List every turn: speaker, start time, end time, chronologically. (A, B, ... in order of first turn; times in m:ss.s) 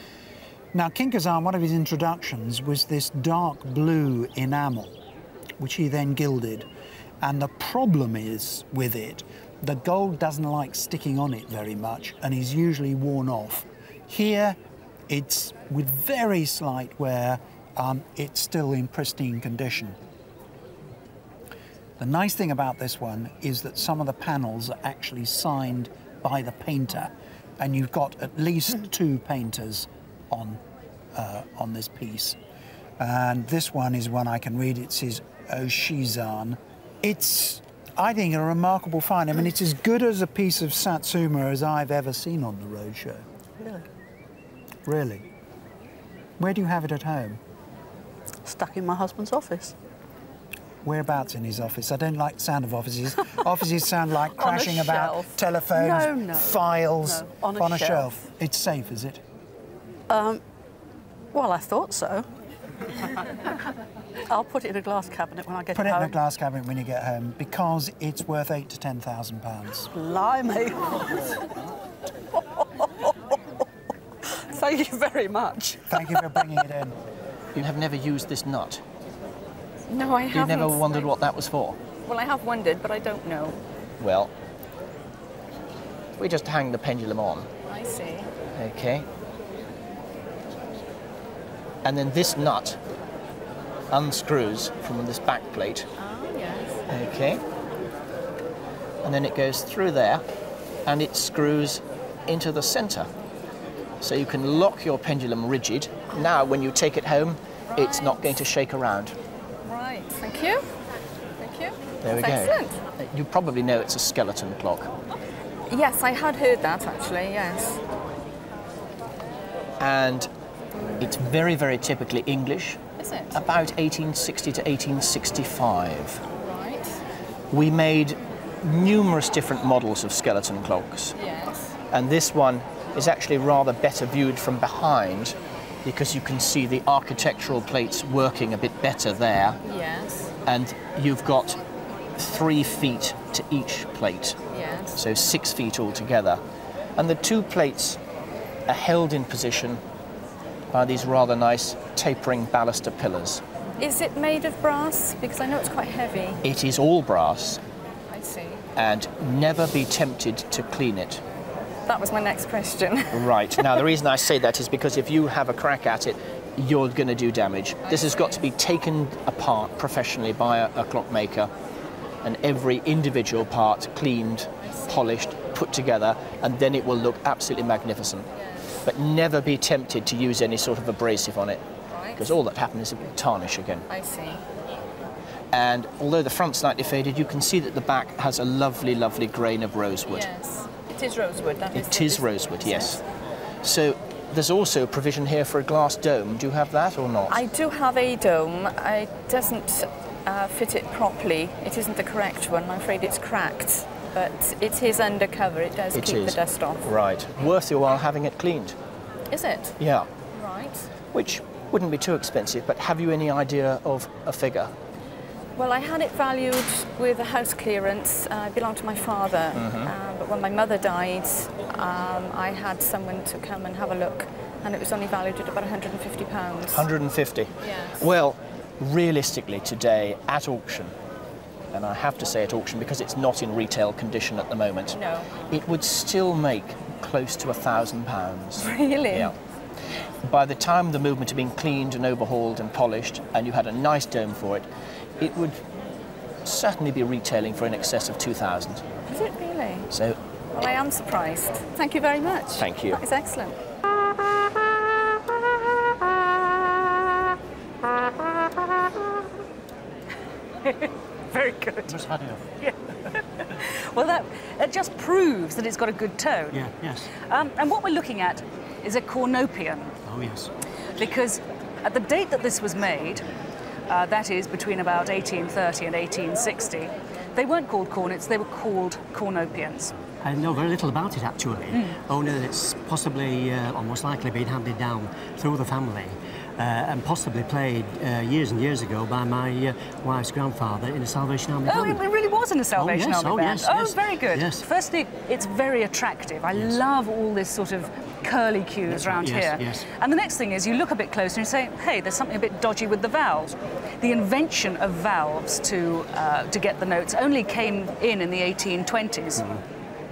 0:00.7-0:05.0 A
0:05.6-0:06.7 A
0:07.2-0:14.6 A
0:15.1-0:20.0 A
0:22.0-0:30.6 A
0:31.1-0:32.4 A
0:33.0-0:43.2 A
0:44.8-0:45.2 A
0:46.4-0:47.4 A
0:48.4-0:49.7 B
0:50.8-0:59.2 A
0:54.4-0:58.2 B
1:00.1-1:00.4 B
1:01.3-1:02.2 B
1:04.3-1:06.2 B
1:05.7-1:09.9 A
1:09.9-1:10.8 B
1:14.6-1:16.0 B
1:15.9-1:16.9 A
1:17.5-1:18.8 C
1:19.9-1:21.1 D
1:20.3-1:21.8 C
1:22.0-1:23.6 D
1:24.0-1:24.3 C
1:26.2-1:27.5 C
1:27.7-1:28.3 D
1:28.6-1:29.0 C
1:31.8-1:32.8 C
1:33.9-1:35.9 C
1:36.0-1:36.8 D
1:36.9-1:37.4 C
1:39.0-1:40.2 C
1:40.8-1:43.1 C
1:44.0-1:49.1 C
1:47.7-1:48.4 D
1:49.6-1:50.6 D
1:51.4-1:52.8 D
1:52.0-1:54.9 C
1:55.7-1:57.8 D
1:59.8-2:00.3 C
2:01.0-2:02.8 C
2:03.0-2:03.4 D
2:03.3-2:06.2 C
2:06.4-2:06.9 D
2:07.5-2:11.1 C
2:11.1-2:11.7 D
2:11.9-2:19.6 C
2:19.6-2:20.3 D
2:20.4-2:21.6 C
2:22.2-2:24.4 C
2:24.5-2:25.0 D
2:24.9-2:26.4 C
2:27.0-2:28.0 C
2:28.7-2:29.8 C
2:30.7-2:33.4 C
2:33.8-2:36.4 D
2:36.4-2:37.6 C
2:38.1-2:38.6 D
2:38.8-2:41.2 C
2:41.9-2:43.8 D
2:43.1-2:51.5 C
2:47.8-2:48.4 D
2:52.2-2:58.3 C
2:54.6-2:55.0 D
2:58.8-3:01.6 C
3:01.9-3:02.4 D
3:02.2-3:03.8 C
3:03.9-3:04.4 D
3:05.5-3:10.3 C
3:10.1-3:13.0 D
3:11.7-3:13.0 C
3:13.6-3:17.4 C
3:17.3-3:26.9 D
3:25.9-3:28.8 C
3:29.3-3:29.7 D
3:29.8-3:30.1 C
3:30.3-3:30.9 D
3:31.1-3:34.7 C
3:35.6-3:46.9 D
3:46.7-3:50.9 C
3:47.6-3:48.0 D
3:51.7-3:59.3 C
3:54.9-3:55.3 D
3:58.6-3:59.3 D
4:00.2-4:04.7 C
4:05.2-4:05.6 C
4:06.4-4:08.8 C
4:09.1-4:09.9 D
4:09.9-4:10.2 C
4:10.5-4:13.6 D
4:12.6-4:13.0 C
4:21.3-4:22.0 E
4:21.9-4:22.4 F
4:23.6-4:26.7 E
4:26.5-4:27.1 F
4:27.3-4:29.9 E
4:30.0-4:30.5 F
4:31.0-4:33.2 E
4:33.9-4:39.9 E
4:40.2-4:52.0 F
4:51.6-5:09.5 E
4:52.8-4:54.6 F
4:58.9-4:59.8 F